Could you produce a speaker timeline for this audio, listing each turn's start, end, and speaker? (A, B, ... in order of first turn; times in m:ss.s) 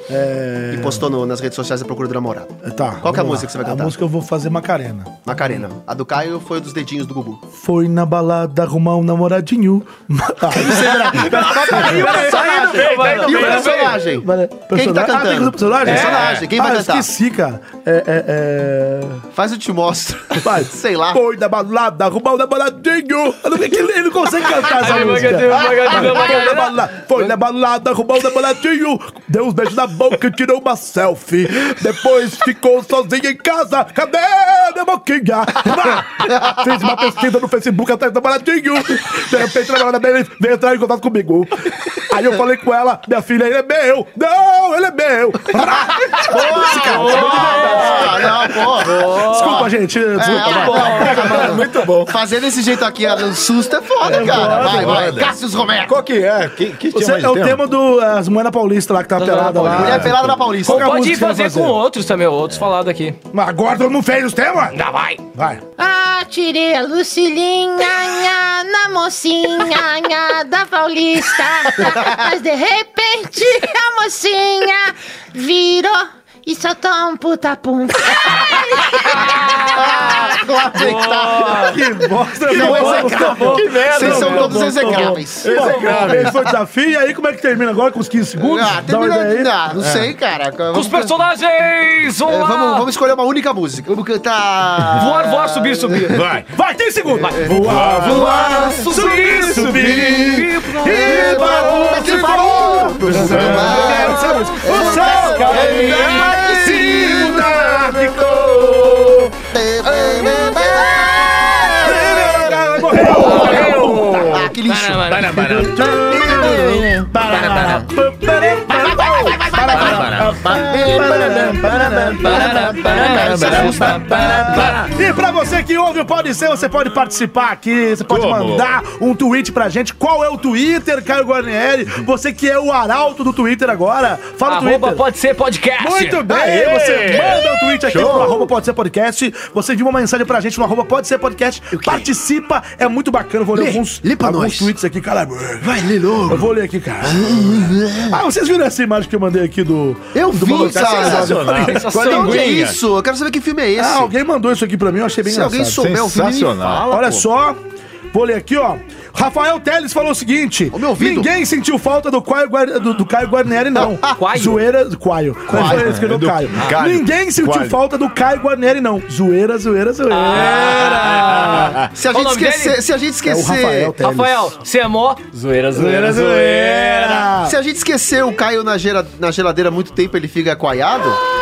0:00.1-0:01.1 A
0:00.7-0:03.9 B
0:02.6-0:05.2 A
0:05.2-0:07.4 B
0:07.6-0:19.2 A
0:10.5-0:17.1 B
0:10.6-0:14.0 C
0:12.6-0:13.9 D
0:15.8-0:16.4 C
0:15.9-0:16.5 D
0:19.3-0:21.2 B
0:20.4-0:51.6 A
0:24.6-0:27.3 C
0:45.6-0:49.6 B
0:46.4-0:49.7 C
0:50.2-0:55.9 B
0:50.3-0:51.6 C
0:50.9-0:52.1 D
0:54.0-0:55.3 A
0:54.1-0:57.6 D
0:56.9-1:01.8 A
0:59.2-1:00.1 C
0:59.7-1:00.8 B
0:59.8-1:00.1 D
1:00.6-1:03.2 C
1:03.3-1:04.8 A
1:04.7-1:05.2 C
1:05.3-1:05.6 A
1:05.8-1:19.6 E
1:19.0-1:21.8 C
1:19.6-1:21.8 B
1:21.6-1:29.5 A
1:22.5-1:26.2 B
1:22.5-1:26.4 D
1:28.4-1:31.1 B
1:29.7-1:30.1 D
1:30.7-1:32.9 C
1:32.3-1:36.2 B
1:34.9-1:36.1 C
1:36.1-1:36.5 D
1:36.5-1:49.2 A
1:37.2-1:38.8 B
1:37.2-1:42.6 C
1:37.4-1:40.2 D
1:39.5-1:47.6 B
1:43.0-1:49.3 D
1:43.3-1:46.2 C
1:49.5-1:55.1 B
1:51.6-1:54.5 D
1:51.8-1:54.0 A
1:53.2-1:54.0 C
1:54.6-1:55.3 C
1:55.0-1:57.9 D
1:55.3-2:15.0 A
1:55.8-1:56.9 B
1:58.7-1:59.8 C
1:58.9-2:04.9 D
1:59.2-2:01.5 B
2:02.2-2:04.7 C
2:02.2-2:04.7 B
2:08.1-2:08.7 D
2:14.4-2:16.2 C
2:15.8-2:31.8 A
2:16.3-2:18.4 D
2:18.0-2:18.3 B
2:21.7-2:22.1 B
2:23.5-2:24.7 B
2:25.6-2:26.5 B
2:27.0-2:28.2 B
2:30.1-2:31.4 B
2:30.5-2:32.8 D
2:31.0-2:32.6 C
2:31.9-2:34.1 B
2:33.8-2:35.8 A
2:35.2-2:37.2 B
2:35.8-2:36.9 D
2:36.9-2:37.6 A
2:38.1-2:51.8 A
2:40.7-2:41.3 B
2:43.8-2:44.1 B
2:44.0-2:44.6 C
2:45.5-2:45.9 B
2:45.5-2:47.8 D
2:50.1-2:52.8 C
2:50.3-2:51.8 D
2:51.9-2:53.9 B
2:53.2-2:54.5 A
2:54.0-2:57.3 C
2:55.8-2:57.6 A
2:56.0-2:56.6 D
2:57.4-3:01.2 B